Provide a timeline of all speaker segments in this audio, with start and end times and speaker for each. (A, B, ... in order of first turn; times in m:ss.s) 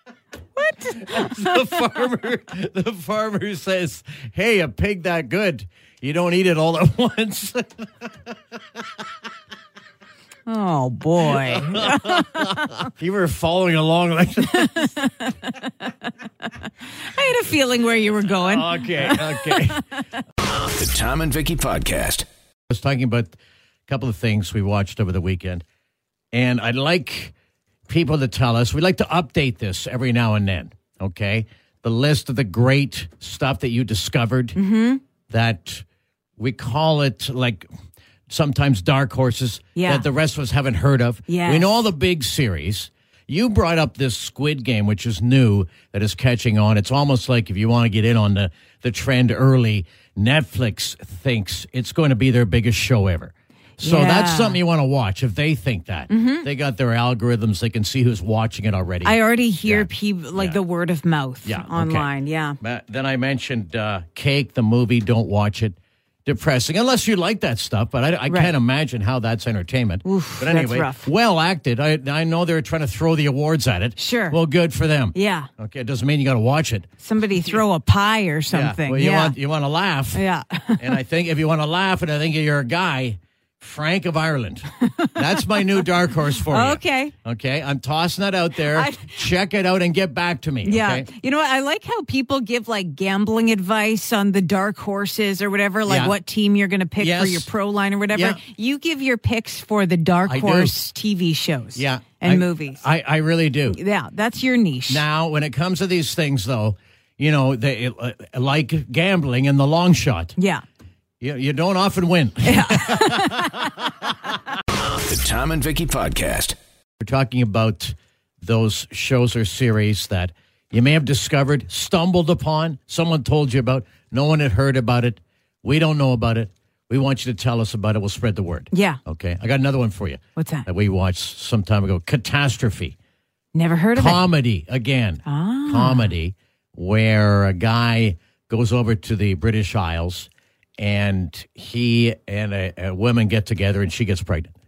0:00.6-0:01.6 A
0:00.9-0:08.1 B
0:10.5-0:12.7 A
0:11.2-0:14.9 B
0:14.4-0:16.1 A
0:17.0-0:20.0 A
0:18.4-0:19.8 B
0:20.4-0:22.2 C
0:22.7-0:23.4 B
0:23.9-0:25.6 B
0:26.3-0:27.3 B
0:27.9-0:34.6 B
0:34.6-0:35.0 A
0:35.3-0:35.8 B
0:36.4-0:37.7 B
0:38.3-1:00.6 B
0:39.7-0:40.0 A
0:41.3-0:41.8 A
0:53.8-0:54.6 A
0:56.1-0:56.4 A
0:59.0-1:02.6 A
1:01.4-1:17.6 B
1:10.0-1:11.1 A
1:14.0-1:14.4 A
1:15.1-1:15.5 A
1:17.0-1:19.3 A
1:18.5-1:20.2 B
1:20.1-1:21.0 A
1:20.8-1:31.1 B
1:24.8-1:25.6 A
1:26.4-1:27.1 A
1:28.6-1:29.3 A
1:30.6-1:42.8 A
1:35.9-1:36.1 B
1:37.0-1:37.5 B
1:38.1-1:38.4 B
1:40.3-1:40.7 B
1:41.7-1:43.8 B
1:43.7-1:45.0 A
1:44.9-1:50.3 B
1:50.4-1:50.6 A
1:51.2-1:53.7 B
1:52.4-1:53.8 A
1:54.7-1:56.6 C
1:57.0-2:13.0 B
2:08.7-2:09.0 A
2:10.4-2:10.7 A
2:13.5-2:14.2 A
2:14.0-2:24.5 B
2:15.2-2:16.1 A